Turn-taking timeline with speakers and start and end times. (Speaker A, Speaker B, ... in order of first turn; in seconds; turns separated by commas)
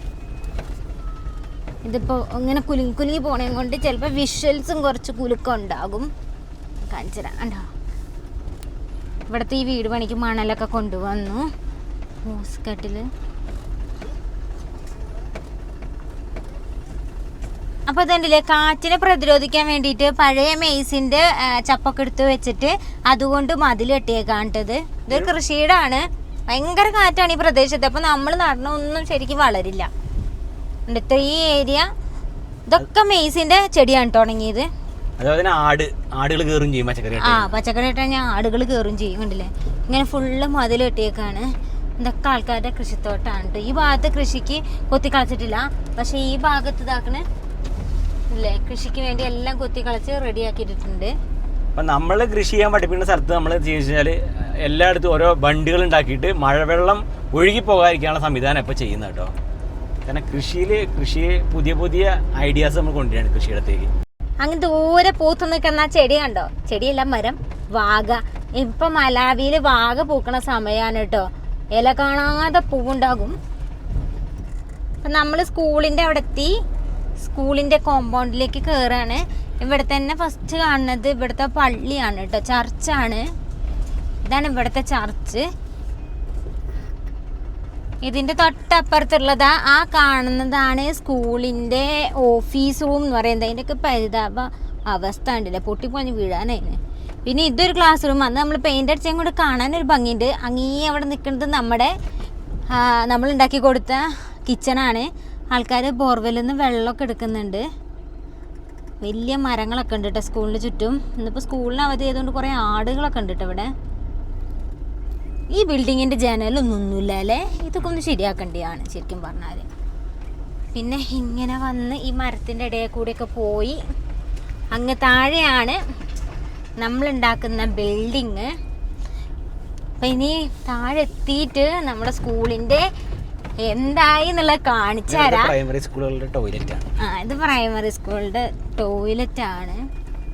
Speaker A: 1.8-6.1, Speaker A: 6.8-7.7, Speaker A: 9.3-11.4, Speaker A: 12.2-13.1, Speaker A: 17.9-29.9, Speaker A: 30.9-31.9, Speaker A: 32.7-34.7, Speaker B: 35.2-37.5, Speaker A: 37.2-41.5, Speaker A: 42.0-47.2, Speaker A: 48.3-51.1, Speaker B: 51.7-59.3, Speaker B: 60.0-63.9, Speaker A: 64.4-73.4, Speaker A: 75.0-76.5, Speaker A: 77.2-83.2, Speaker A: 84.2-85.5, Speaker A: 88.0-101.9, Speaker A: 102.7-107.6, Speaker A: 109.0-113.7, Speaker A: 115.5-119.7, Speaker A: 120.7-123.8, Speaker A: 124.7-125.8, Speaker A: 126.8-128.5, Speaker A: 130.0-132.8, Speaker A: 133.6-135.5, Speaker B: 135.1-136.9, Speaker A: 137.0-139.8